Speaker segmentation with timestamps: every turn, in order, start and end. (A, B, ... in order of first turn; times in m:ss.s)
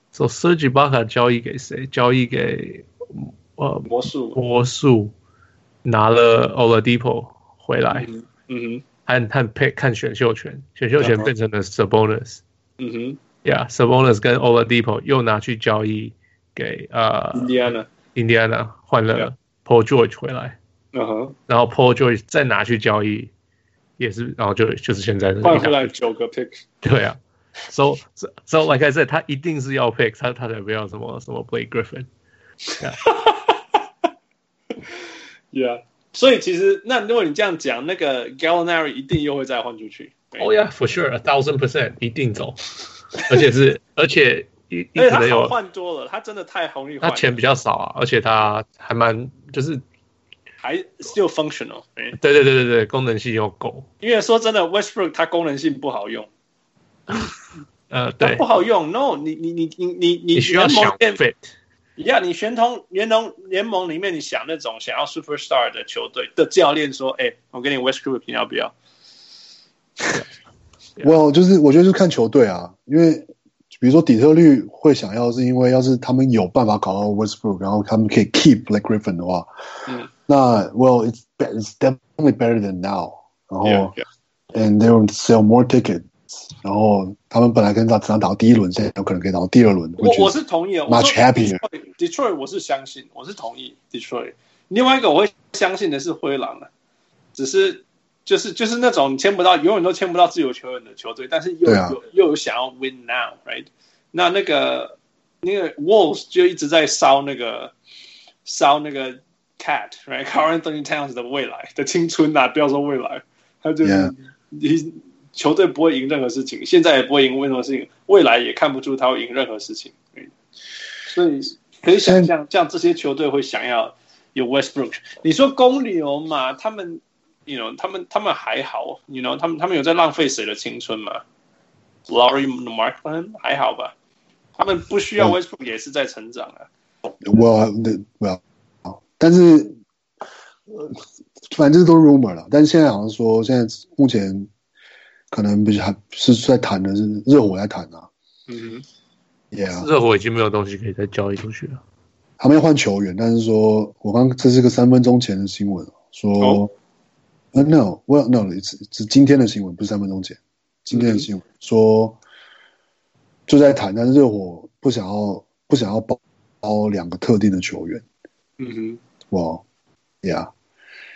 0:00.1-0:05.1 A
0:03.8-0:04.4 B
0:05.8-0:08.1 A
0:07.9-0:08.8 B
0:09.0-0:12.4 A
0:11.0-0:11.3 B
0:12.8-0:13.2 B
0:13.4-0:17.6 A
0:17.3-0:17.9 B
0:18.1-0:20.6 A
0:20.9-0:21.3 B
0:21.5-0:23.3 A
0:24.0-0:25.9 A
0:25.4-0:26.6 B
0:26.8-0:32.1 A
0:32.8-0:33.0 A
0:33.0-0:33.6 B
0:35.5-0:40.5 B
0:40.4-0:45.5 A
0:45.0-0:47.4 B
0:47.0-0:49.8 A
0:50.6-0:52.2 B
0:52.2-0:53.9 A
0:54.0-0:56.3 B
0:57.9-0:58.4 A
0:58.2-1:01.2 B
1:00.3-1:01.5 A
1:02.0-1:08.7 B
1:11.0-1:19.5 C
1:20.3-1:23.9 C
1:23.6-1:24.0 B
1:24.5-1:30.3 C
1:30.0-1:36.7 B
1:30.9-1:31.6 C
1:37.3-1:47.7 B
1:41.6-1:42.0 C
1:48.4-2:00.3 B
1:53.8-1:54.1 C
2:01.1-2:11.2 B
2:02.0-2:02.3 C
2:12.1-2:13.9 B
2:14.6-2:16.7 B
2:17.2-2:19.8 C
2:20.7-2:24.5 C
2:25.3-2:28.1 C
2:28.5-2:28.8 B
2:29.5-2:29.9 C
2:29.7-2:31.8 A
2:32.4-2:36.7 C
2:37.5-2:42.2 C
2:40.9-2:41.3 B
2:43.5-2:48.0 C
2:48.6-2:49.0 B
2:49.3-2:49.6 C
2:50.2-2:50.5 C